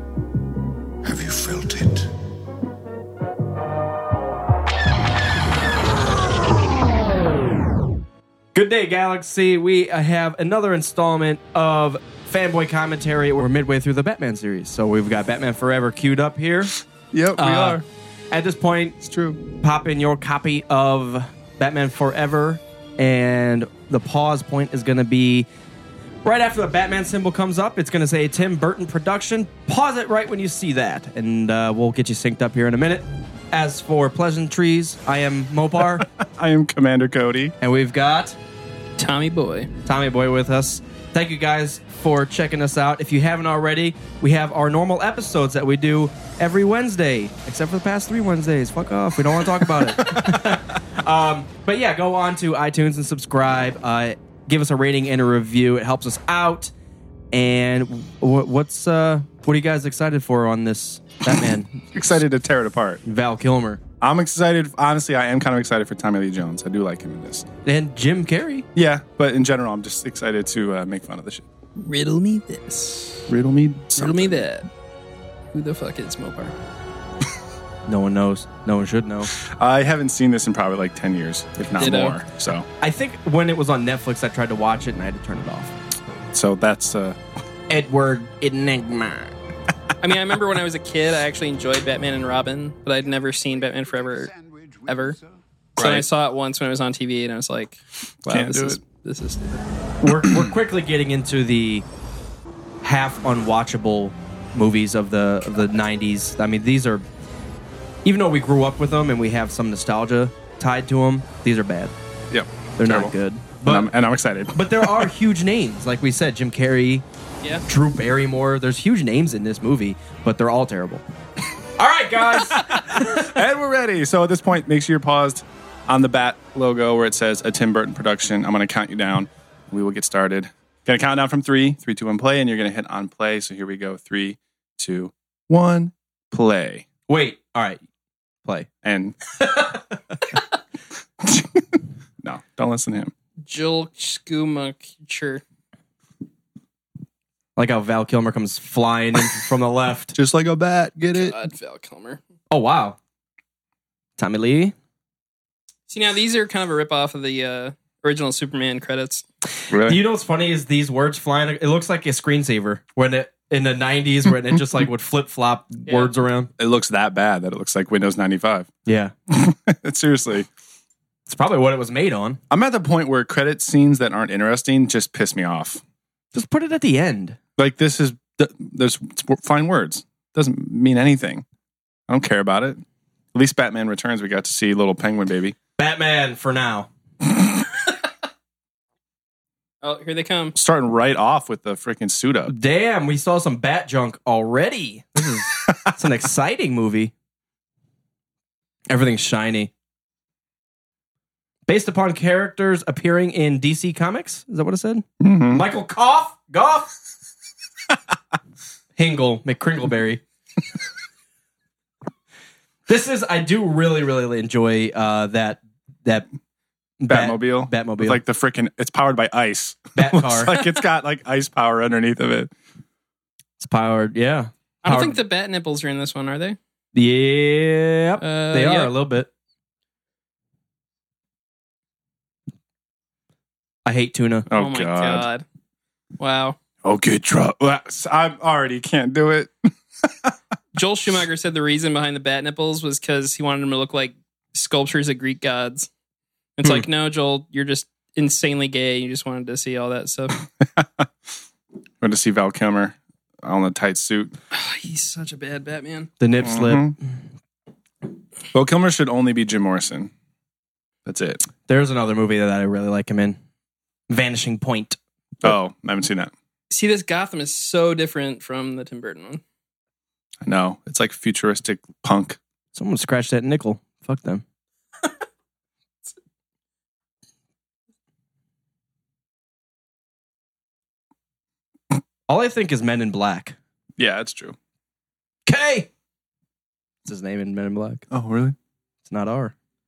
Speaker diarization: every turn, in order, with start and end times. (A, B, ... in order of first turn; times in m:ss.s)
0:01.0-0:02.2 A
0:08.6-0:16.7 B
0:17.1-0:17.8 C
0:17.4-0:19.0 B
0:19.0-0:19.4 C
0:19.6-0:25.5 B
0:26.2-0:36.1 B
0:36.0-0:37.5 C
0:37.6-0:38.4 B
0:39.0-0:39.7 D
0:39.8-0:56.7 B
0:49.7-0:50.6 C
0:57.3-1:01.8 B
1:01.9-1:03.0 C
1:03.0-1:03.8 B
1:04.0-1:07.5 C
1:07.6-1:08.7 B
1:08.8-1:11.5 C
1:11.8-1:13.3 D
1:13.3-1:14.5 C
1:14.0-1:14.7 D
1:15.5-1:16.5 D
1:17.9-1:19.3 B
1:19.3-1:22.7 C
1:21.8-1:22.2 D
1:22.8-1:25.7 B
1:26.3-1:27.2 C
1:27.7-1:29.3 B
1:30.0-1:34.3 D
1:33.7-1:35.3 A
1:34.9-1:35.2 D
1:35.8-1:36.1 C
1:35.8-1:39.6 D
1:38.2-1:38.8 C
1:40.0-1:41.9 B
1:42.8-1:47.0 B
1:48.0-1:51.9 B
1:52.3-1:55.1 C
1:52.8-1:53.9 B
1:54.5-1:57.1 B
1:57.7-2:01.0 B
2:01.8-2:03.4 B
2:02.3-2:16.9 C
2:17.1-2:17.8 B
2:18.8-2:19.2 C
2:19.3-2:20.2 B
2:21.2-2:23.1 C
2:23.5-2:25.4 D
2:27.6-2:30.2 B
2:30.2-2:31.4 C
2:31.1-2:32.2 D
2:32.5-2:33.0 B
2:34.2-2:34.8 B
2:35.9-2:39.2 D
2:39.7-2:40.0 C
2:39.7-2:46.5 B
2:45.9-2:46.1 D
2:46.6-2:48.7 C
2:48.8-2:49.1 B
2:49.3-2:50.5 C
2:51.3-2:52.4 B
2:52.5-2:55.8 C
2:56.3-2:57.4 B
2:57.6-3:01.4 C
3:02.1-3:02.8 C
3:03.3-3:05.6 C
3:05.8-3:06.9 B
3:09.8-3:10.6 D
3:10.6-3:12.5 C
3:12.5-3:17.1 B
3:18.9-3:19.7 B
3:21.7-3:26.9 B
3:25.2-3:25.6 C
3:29.0-3:30.2 B
3:32.9-3:36.3 B
3:37.0-3:38.2 B
3:37.1-3:42.5 C
3:40.0-3:40.8 B
3:43.6-3:45.2 B
3:44.8-3:46.6 D
3:46.9-3:49.3 B
3:48.2-3:48.9 D
3:53.8-3:54.5 B
3:54.5-3:55.3 C
3:54.5-3:55.4 D
3:56.2-3:56.6 D
3:56.8-4:00.4 C
4:00.7-4:05.9 D
4:06.6-4:10.4 D
4:10.6-4:11.1 C
4:12.0-4:14.4 C
4:14.5-4:16.1 D
4:16.2-4:17.0 B
4:16.4-4:17.0 C
4:18.5-4:20.1 C
4:21.1-4:21.4 C
4:21.7-4:23.4 B
4:24.1-4:25.0 B
4:25.4-4:26.3 C
4:26.7-4:29.4 D
4:30.4-4:32.4 C
4:32.7-4:34.4 B
4:42.3-4:43.6 B
4:44.0-4:44.6 C
4:45.5-4:45.9 B
4:47.0-4:48.1 B
4:48.1-4:48.6 C
4:49.0-4:49.6 B